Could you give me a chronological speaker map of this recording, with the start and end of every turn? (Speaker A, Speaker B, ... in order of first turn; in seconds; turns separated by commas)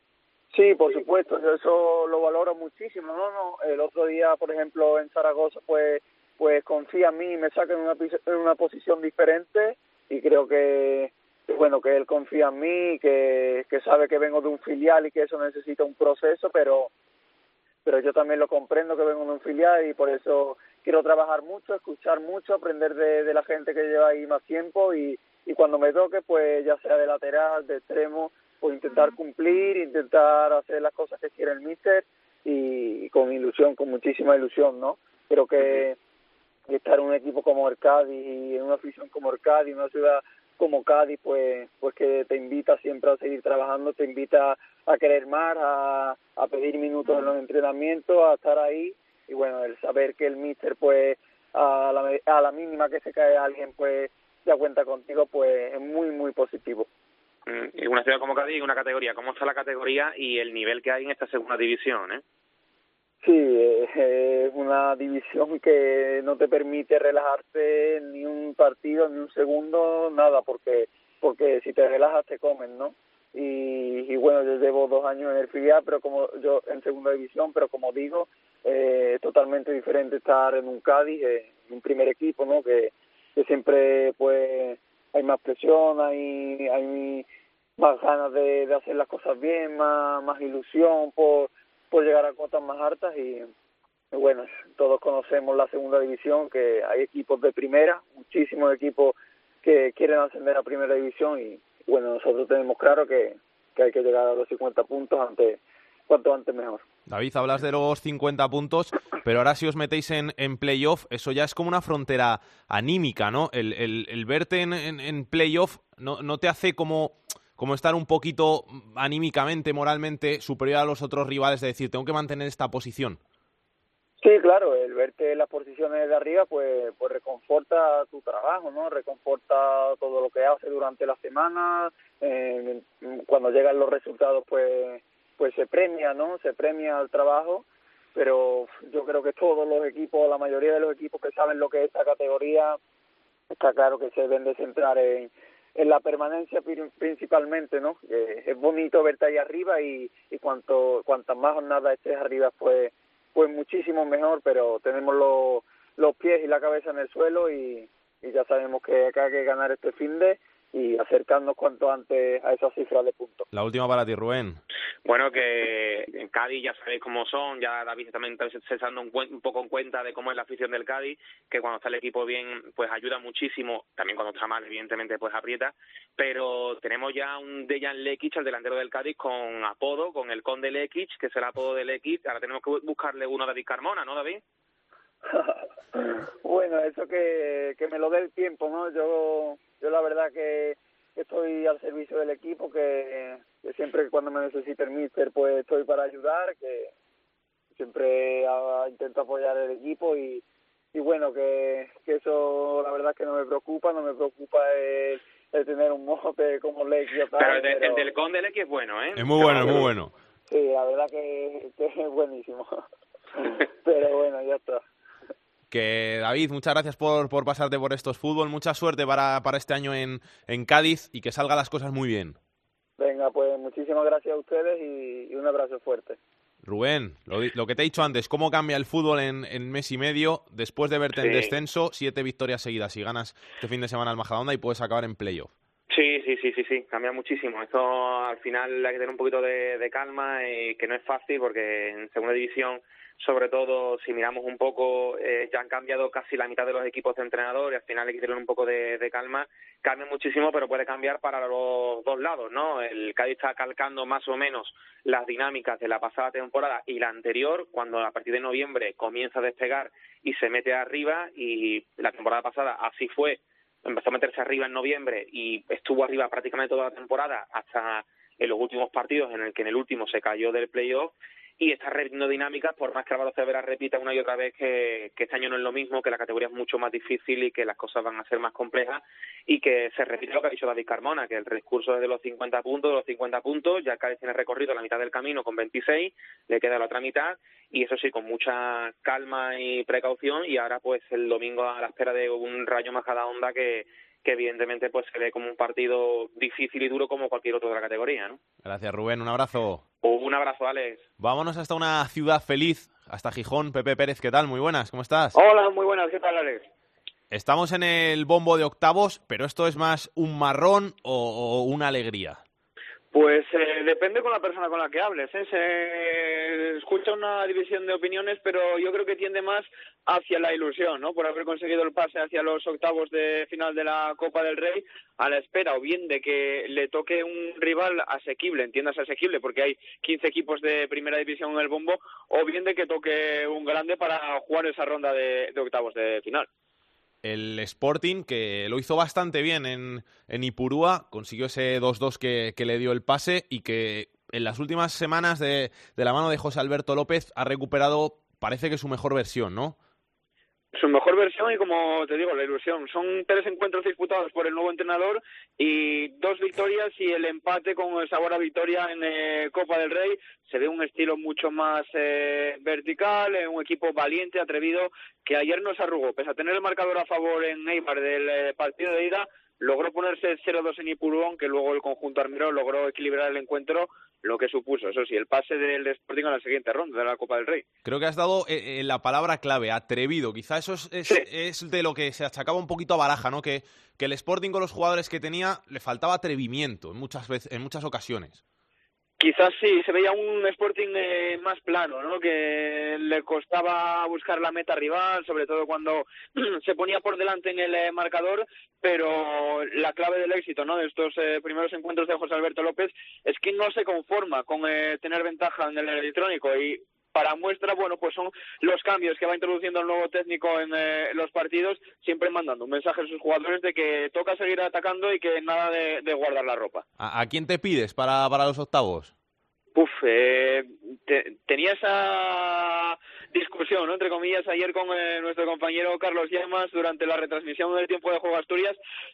Speaker A: 0.5-16.9, Speaker A: 17.8-36.0, Speaker A: 36.7-56.9, Speaker B: 57.5-62.2, Speaker A: 63.2-87.2, Speaker A: 87.8-93.5, Speaker A: 94.1-106.8, Speaker C: 107.1-123.2, Speaker A: 124.2-137.6, Speaker A: 138.1-142.8, Speaker A: 143.5-163.5, Speaker C: 163.5-164.6, Speaker B: 165.0-184.4, Speaker A: 185.3-196.9, Speaker A: 197.8-200.4, Speaker A: 200.9-208.1, Speaker B: 207.4-209.9, Speaker C: 209.1-210.1, Speaker A: 210.5-212.8, Speaker A: 213.4-214.8, Speaker C: 215.7-222.4, Speaker A: 223.0-226.2, Speaker C: 226.6-235.5, Speaker B: 231.1-231.6, Speaker B: 235.9-298.4, Speaker C: 298.6-299.8, Speaker B: 300.0-301.0, Speaker C: 301.2-305.4, Speaker D: 305.3-306.7, Speaker C: 307.3-312.4, Speaker D: 313.1-336.5, Speaker C: 337.2-349.8, Speaker D: 350.7-377.6, Speaker C: 377.8-388.4, Speaker D: 389.2-416.8, Speaker C: 417.0-419.1, Speaker D: 419.7-428.8